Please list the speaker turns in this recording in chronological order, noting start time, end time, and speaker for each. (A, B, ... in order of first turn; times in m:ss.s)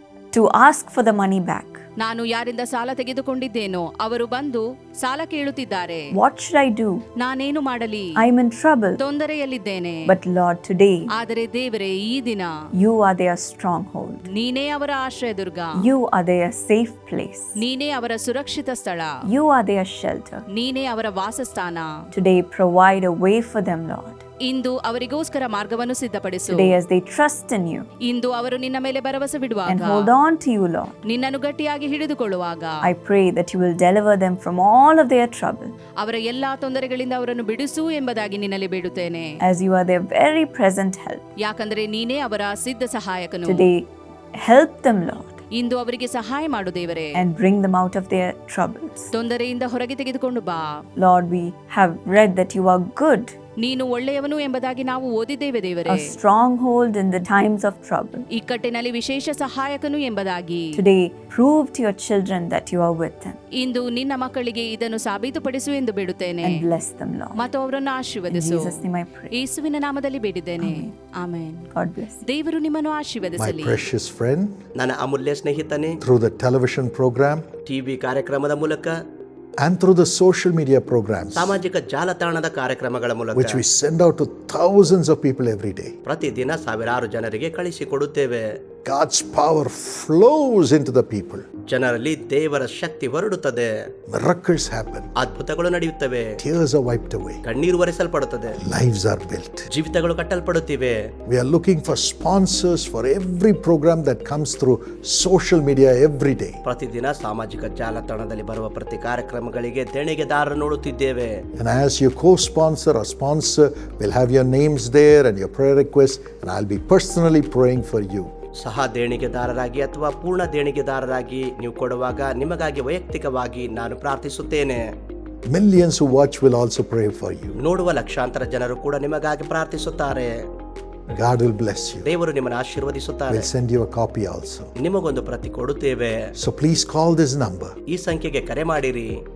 0:00.3-0:01.8 A
0:02.0-0:06.1 B
0:06.1-0:07.0 A
0:07.2-0:08.1 B
0:08.2-0:09.0 A
0:09.0-0:10.0 B
0:10.1-0:11.1 A
0:11.2-0:12.5 B
0:12.8-0:14.3 A
0:14.3-0:15.8 B
0:15.8-0:17.6 A
0:17.6-0:19.1 B
0:19.3-0:20.4 A
0:20.5-0:21.9 B
0:22.1-0:24.2 A
0:24.4-0:26.8 B
0:26.5-0:27.9 A
0:28.1-0:30.1 B
0:29.7-0:31.0 A
0:31.1-0:32.8 B
0:32.8-0:35.8 A
0:36.0-0:39.3 B
0:39.4-0:41.2 A
0:41.4-0:43.7 B
0:43.4-0:45.4 A
0:45.6-0:47.1 B
0:47.2-0:49.1 A
0:49.1-0:50.6 B
0:51.0-0:53.4 A
0:53.6-0:56.1 B
0:55.9-0:58.2 A
0:58.3-1:00.7 B
1:00.8-1:03.4 A
1:03.6-1:06.6 B
1:06.4-1:07.4 A
1:07.4-1:11.7 B
1:08.3-1:09.4 A
1:10.6-1:10.9 A
1:11.7-1:12.2 A
1:12.2-1:13.8 B
1:13.4-1:14.6 C
1:14.8-1:16.0 D
1:16.0-1:17.5 C
1:17.7-1:19.0 D
1:19.6-1:21.6 C
1:21.4-1:23.6 D
1:23.4-1:26.0 C
1:26.1-1:28.4 D
1:28.9-1:31.4 C
1:31.7-1:33.7 D
1:34.1-1:35.1 C
1:35.2-1:36.3 D
1:36.4-1:37.4 C
1:37.4-1:38.6 D
1:38.6-1:39.7 C
1:39.7-1:41.0 D
1:41.3-1:46.6 C
1:46.6-1:51.3 D
1:51.6-1:58.3 C
1:58.6-2:04.8 D
2:05.5-2:07.6 C
2:07.6-2:10.3 D
2:11.2-2:12.1 C
2:12.0-2:13.5 D
2:13.3-2:14.7 C
2:14.8-2:16.2 D
2:16.4-2:17.8 C
2:17.9-2:19.2 D